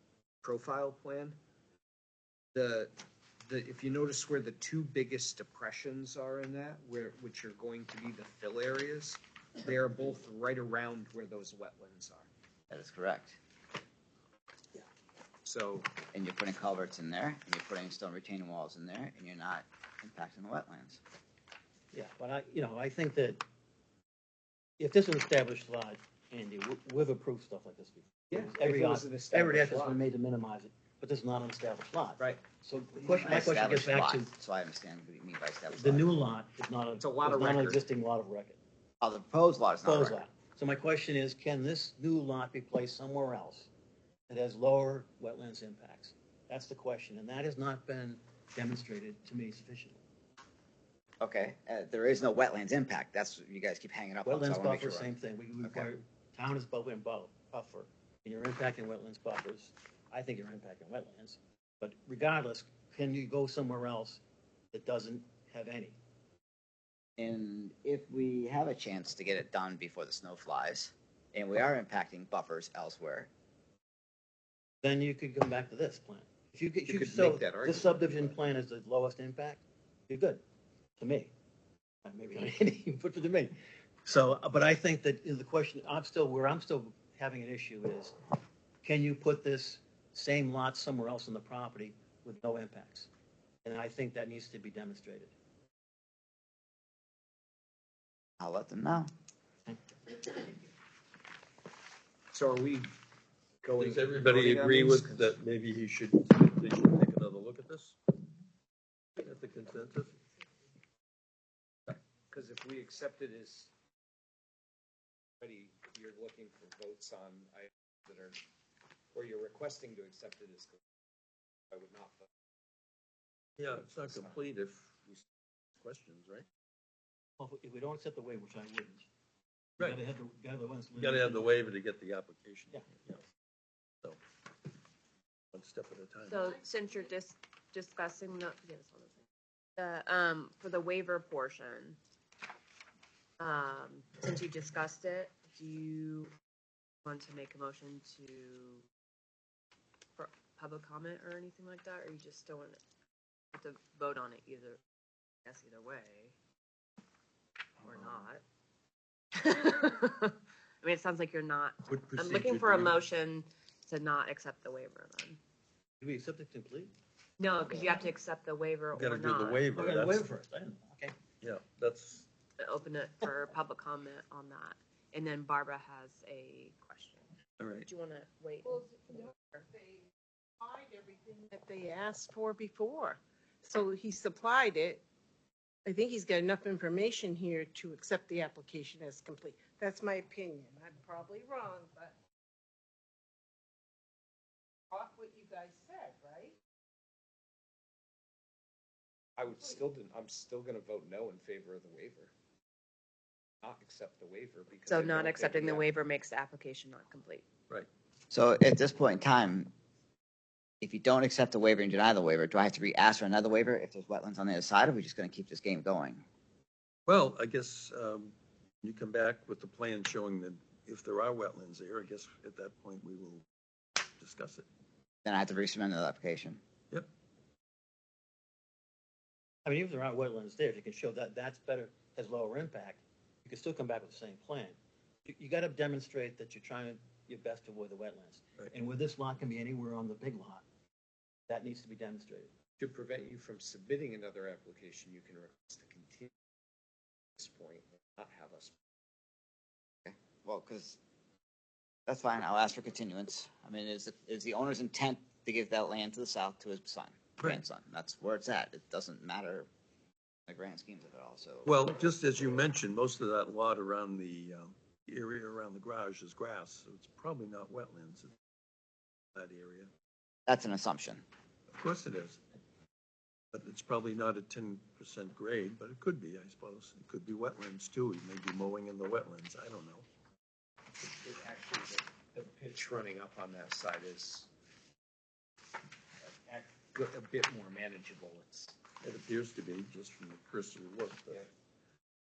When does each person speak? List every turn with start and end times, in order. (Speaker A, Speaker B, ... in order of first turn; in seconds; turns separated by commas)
Speaker A: 0.4-1.4, Speaker A: 2.5-12.3, Speaker B: 12.7-13.4, Speaker A: 15.4-15.9, Speaker B: 16.1-21.0, Speaker C: 21.9-23.4, Speaker C: 24.8-34.3, Speaker A: 28.3-30.0, Speaker B: 33.0-36.1, Speaker C: 35.7-38.6, Speaker A: 37.0-37.8, Speaker B: 39.0-40.2, Speaker C: 39.8-43.7, Speaker C: 44.3-50.0, Speaker B: 51.2-55.9, Speaker C: 54.2-64.2, Speaker C: 64.7-66.0, Speaker B: 67.2-73.3, Speaker C: 74.8-80.4, Speaker A: 76.9-78.3, Speaker C: 81.0-81.3, Speaker C: 82.0-88.1, Speaker C: 88.8-93.1, Speaker C: 93.6-95.3, Speaker B: 98.4-99.1, Speaker C: 99.7-100.2, Speaker A: 102.3-102.9, Speaker A: 103.6-105.3, Speaker D: 103.8-108.0, Speaker D: 109.2-110.2, Speaker A: 111.9-113.7, Speaker A: 115.4-118.4, Speaker A: 119.1-120.8, Speaker A: 121.7-122.3, Speaker D: 123.6-125.2, Speaker A: 124.0-124.4, Speaker D: 125.8-126.5, Speaker C: 127.4-129.1, Speaker C: 129.8-131.5, Speaker D: 130.9-133.2, Speaker D: 135.5-136.4, Speaker E: 136.2-139.2, Speaker E: 139.8-142.0, Speaker E: 143.4-146.3, Speaker E: 147.0-148.8, Speaker E: 150.2-152.8, Speaker E: 153.5-154.8, Speaker E: 155.4-156.3, Speaker E: 157.8-158.4, Speaker E: 159.4-165.4, Speaker D: 161.9-163.0, Speaker C: 166.0-166.9, Speaker E: 167.4-169.7, Speaker C: 167.7-168.0, Speaker D: 168.9-170.3, Speaker C: 169.7-171.2, Speaker D: 171.4-172.2, Speaker E: 172.6-177.2, Speaker D: 177.6-177.9, Speaker E: 177.8-179.7, Speaker F: 179.7-180.1, Speaker F: 180.6-185.0, Speaker F: 185.8-192.2, Speaker F: 194.9-196.6, Speaker A: 199.4-202.3, Speaker A: 203.6-205.8, Speaker E: 204.9-207.5, Speaker B: 208.3-209.7, Speaker B: 210.8-216.2, Speaker D: 217.1-223.5, Speaker D: 224.2-224.7, Speaker B: 225.2-226.6, Speaker C: 229.6-240.6, Speaker C: 241.5-242.5, Speaker A: 242.8-246.3, Speaker A: 247.4-248.8, Speaker B: 250.0-251.0, Speaker B: 252.1-259.7, Speaker B: 260.5-261.7, Speaker D: 261.6-268.3, Speaker D: 269.3-269.9, Speaker B: 270.5-271.2, Speaker D: 271.7-272.4, Speaker D: 273.5-280.1, Speaker A: 281.1-284.5, Speaker A: 286.2-288.8, Speaker D: 289.0-291.4